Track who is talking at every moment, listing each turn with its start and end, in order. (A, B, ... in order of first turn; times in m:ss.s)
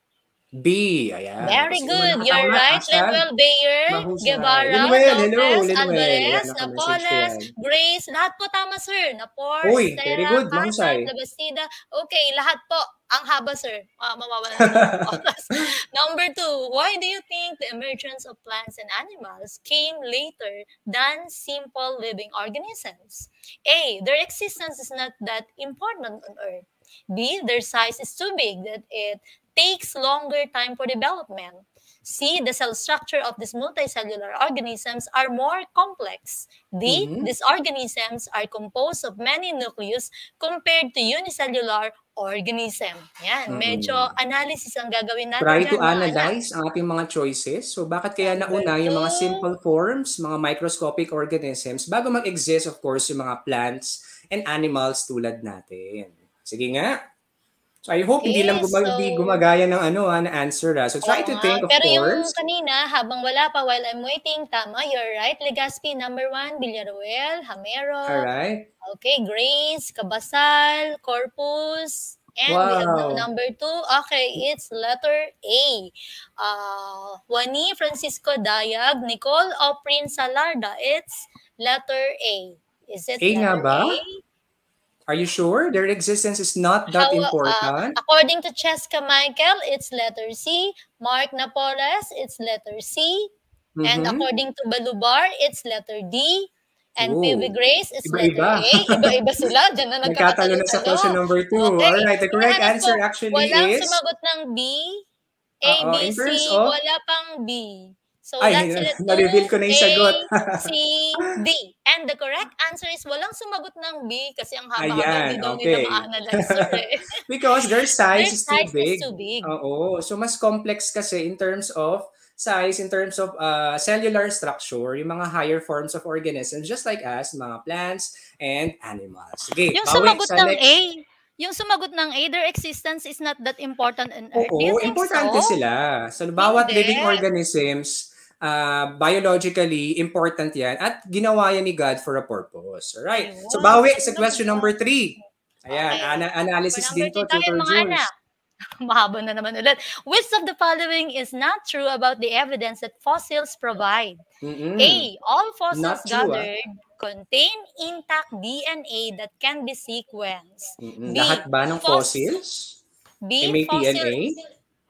0:00.6-0:03.2 A
0:01.4-0:46.3 B
0:03.9-0:07.5 A
0:09.6-0:11.1 A
0:14.7-0:15.1 A
0:36.9-0:37.3 A
0:43.5-0:44.2 A
0:45.4-0:57.0 A
0:48.2-0:49.5 B
0:57.9-1:02.4 A
0:58.2-0:59.4 B
1:01.0-1:08.3 B
1:08.1-1:08.7 A
1:08.8-1:24.2 B
1:12.5-1:13.3 A
1:23.2-1:24.0 A
1:25.1-1:28.0 A
1:26.9-1:33.3 B
1:33.8-1:34.2 A
1:33.8-1:45.0 B
1:37.0-1:37.5 A
1:38.0-1:39.1 A
1:40.0-1:44.0 A
1:45.6-1:57.1 B
1:45.7-1:46.8 A
1:48.4-1:50.7 A
1:54.8-2:10.7 A
1:58.1-1:59.5 B
2:09.8-2:15.5 B
2:14.4-2:28.1 A
2:16.4-2:17.2 B
2:23.2-2:24.8 B
2:25.7-2:28.1 B
2:28.8-2:34.2 B
2:34.4-2:35.1 A
2:34.8-2:42.2 B
2:35.7-2:36.5 A
2:40.8-2:42.8 A
2:43.2-2:44.4 B
2:43.4-2:44.4 A